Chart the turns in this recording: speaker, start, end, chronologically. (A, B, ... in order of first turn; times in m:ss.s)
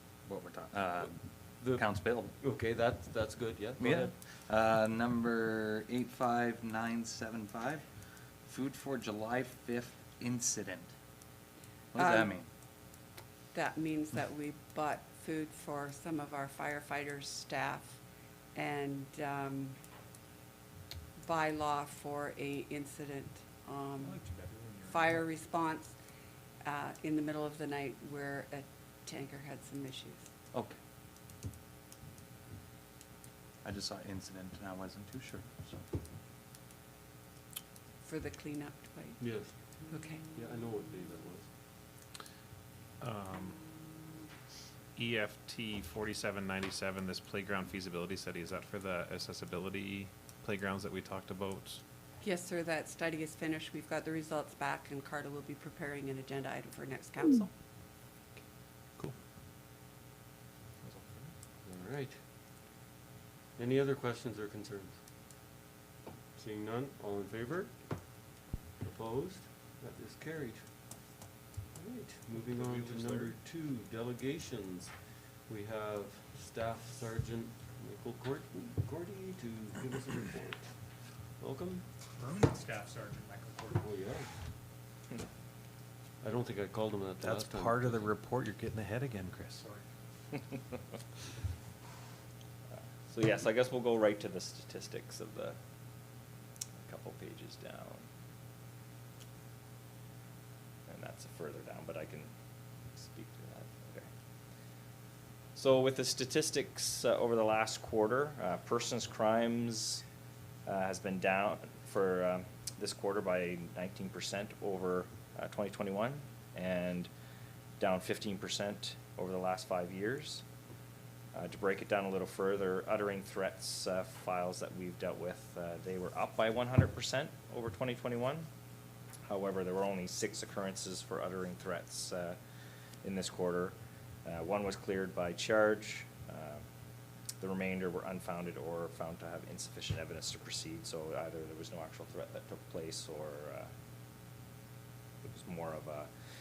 0:00.2-0:02.3 A
0:01.6-0:04.1 B
0:03.8-0:10.9 A
0:11.9-0:12.5 A
0:11.9-0:12.3 C
0:13.5-0:18.0 C
0:18.5-0:19.7 C
0:21.2-0:24.2 C
0:24.0-0:25.3 D
0:24.8-0:25.9 C
0:26.6-0:30.3 C
0:30.5-0:30.8 A
0:33.6-0:35.8 A
0:38.0-0:39.4 C
0:39.2-0:41.5 B
0:39.9-0:40.2 C
0:43.0-0:43.6 E
0:45.0-0:51.8 E
0:52.2-0:57.5 C
1:00.8-1:01.3 E
1:01.6-1:02.2 B
1:03.6-1:05.0 B
1:06.3-1:08.0 B
1:08.8-1:11.0 B
1:11.7-1:14.9 B
1:12.4-1:13.3 E
1:15.5-1:20.8 B
1:21.4-1:21.8 B
1:22.2-1:23.8 D
1:23.7-1:24.3 B
1:26.2-1:28.0 B
1:27.2-1:29.6 A
1:29.6-1:29.8 D
1:32.7-1:35.6 F
1:36.8-1:38.0 F
1:40.9-1:42.3 F
1:42.9-1:44.1 F
1:45.6-1:50.0 F
1:50.6-1:57.1 F
1:57.8-2:00.4 F
2:01.3-2:08.5 F
2:09.2-2:12.4 F
2:13.0-2:16.6 F
2:17.4-2:23.7 F
2:25.2-2:26.1 F